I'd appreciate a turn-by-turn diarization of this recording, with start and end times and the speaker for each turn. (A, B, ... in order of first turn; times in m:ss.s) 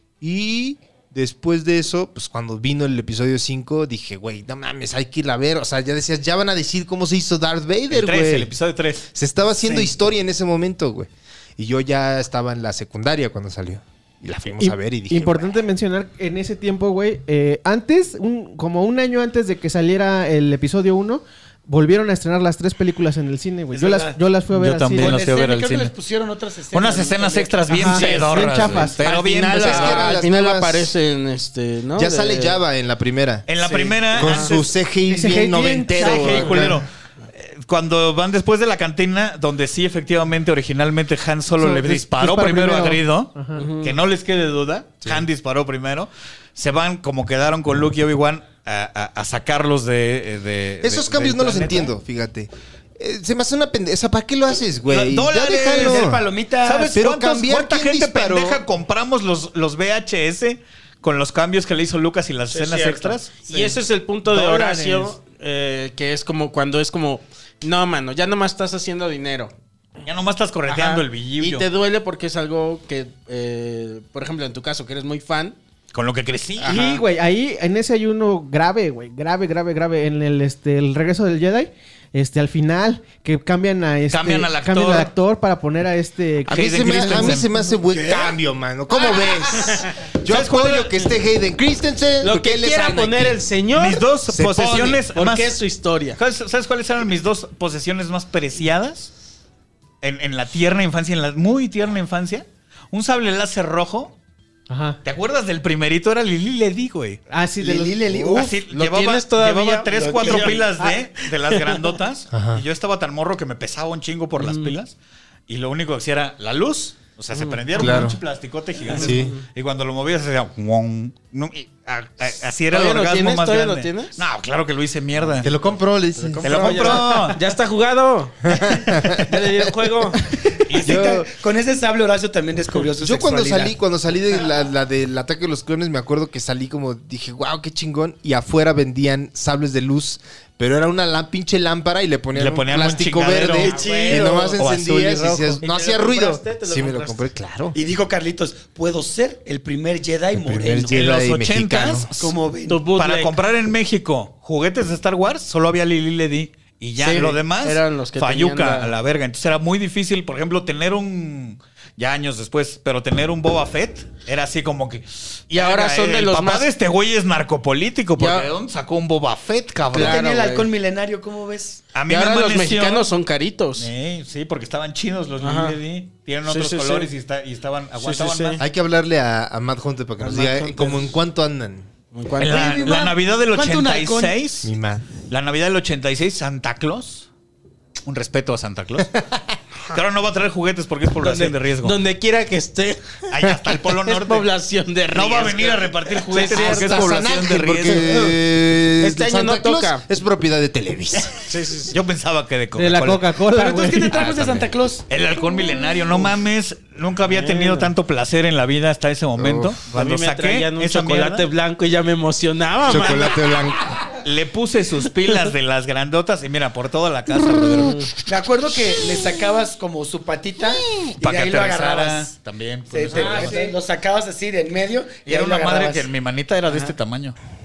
0:00.2-0:08.5 A
0:07.9-0:09.1 B
0:09.1-0:15.5 A
0:09.6-0:09.9 C
0:14.6-0:25.2 D
0:23.7-0:24.2 C
0:24.5-0:25.9 B
0:25.0-0:28.1 C
0:26.7-0:30.1 B
0:27.7-0:29.0 D
0:27.8-0:28.9 E
0:29.0-0:30.9 A
0:29.5-0:32.6 E
0:32.0-0:33.5 A
0:33.5-0:34.7 B
0:33.6-0:34.6 E
0:34.1-0:36.8 A
0:35.1-0:36.8 D
0:35.9-0:51.9 B
0:41.6-0:43.7 D
0:43.6-0:44.0 E
0:50.8-0:56.2 A
0:54.9-0:56.1 B
0:55.6-0:57.0 C
0:56.6-1:03.7 B
0:56.9-0:58.6 A
1:02.5-1:09.5 E
1:04.3-1:05.1 D
1:10.0-1:11.7 B
1:10.7-1:15.6 E
1:15.9-1:17.0 B
1:16.6-1:17.0 E
1:16.7-1:27.6 D
1:24.1-1:25.1 B
1:26.5-1:27.5 B
1:26.5-1:33.5 A
1:27.9-1:28.4 C
1:30.2-1:31.0 B
1:32.2-1:36.2 E
1:33.7-1:35.6 B
1:34.3-1:34.9 A
1:36.2-1:39.1 B
1:40.0-1:44.2 B
1:44.7-1:45.0 D
1:45.0-1:47.2 B
1:47.3-1:48.3 D
1:47.6-1:48.6 C
1:48.3-1:55.0 B
1:48.7-1:50.9 E
1:49.9-1:50.7 C
1:52.3-1:52.6 A
1:54.4-1:54.7 E
1:55.5-2:05.5 B
1:57.3-1:58.0 E
1:57.8-1:58.2 A
1:58.9-1:59.4 E
1:59.0-1:59.3 A
2:02.7-2:04.2 E
2:05.4-2:07.0 A
2:06.2-2:10.3 E
2:06.4-2:07.4 B
2:08.4-2:09.5 A
2:10.7-2:11.2 B
2:10.7-2:13.8 C
2:10.8-2:11.3 A
2:13.0-2:27.8 A
2:22.3-2:25.6 B
2:23.6-2:24.5 C
2:23.6-2:24.6 E
2:25.6-2:27.3 E
2:27.7-2:31.0 C
2:30.3-2:32.1 A
2:30.9-2:32.4 B
2:32.2-2:32.9 C
2:32.7-2:33.4 E
2:33.0-2:50.2 B
2:37.0-2:38.9 E
2:45.5-2:46.7 E
2:48.2-2:48.5 E
2:49.9-2:50.7 E
2:49.9-2:51.8 C
2:51.9-2:53.1 B
2:52.1-2:53.9 E
2:53.8-2:58.6 B
2:55.4-2:55.8 E
2:56.5-2:57.1 E
2:58.0-2:58.6 E
2:58.6-3:01.9 A
3:00.2-3:01.1 E
3:02.1-3:02.9 E
3:02.4-3:04.7 B
3:02.4-3:04.4 C
3:04.6-3:05.1 A
3:05.2-3:07.3 B
3:08.1-3:09.3 B
3:09.9-3:12.0 B
3:11.2-3:13.2 E
3:13.3-3:14.5 B
3:13.9-3:17.3 E
3:15.1-3:18.3 B
3:16.5-3:21.4 A
3:19.0-3:20.0 E
3:21.4-3:22.0 E
3:21.9-3:23.4 B
3:22.7-3:24.3 D
3:23.5-3:25.0 C
3:24.1-3:24.7 A
3:25.1-3:31.5 B
3:27.3-3:27.9 E
3:29.4-3:29.8 A
3:29.9-3:33.6 E
3:32.9-3:34.0 A
3:34.1-3:38.0 B
3:37.8-3:38.1 E
3:38.3-3:42.3 C
3:41.0-3:43.6 B
3:42.9-3:46.1 C
3:43.2-3:43.7 D
3:45.3-3:47.4 B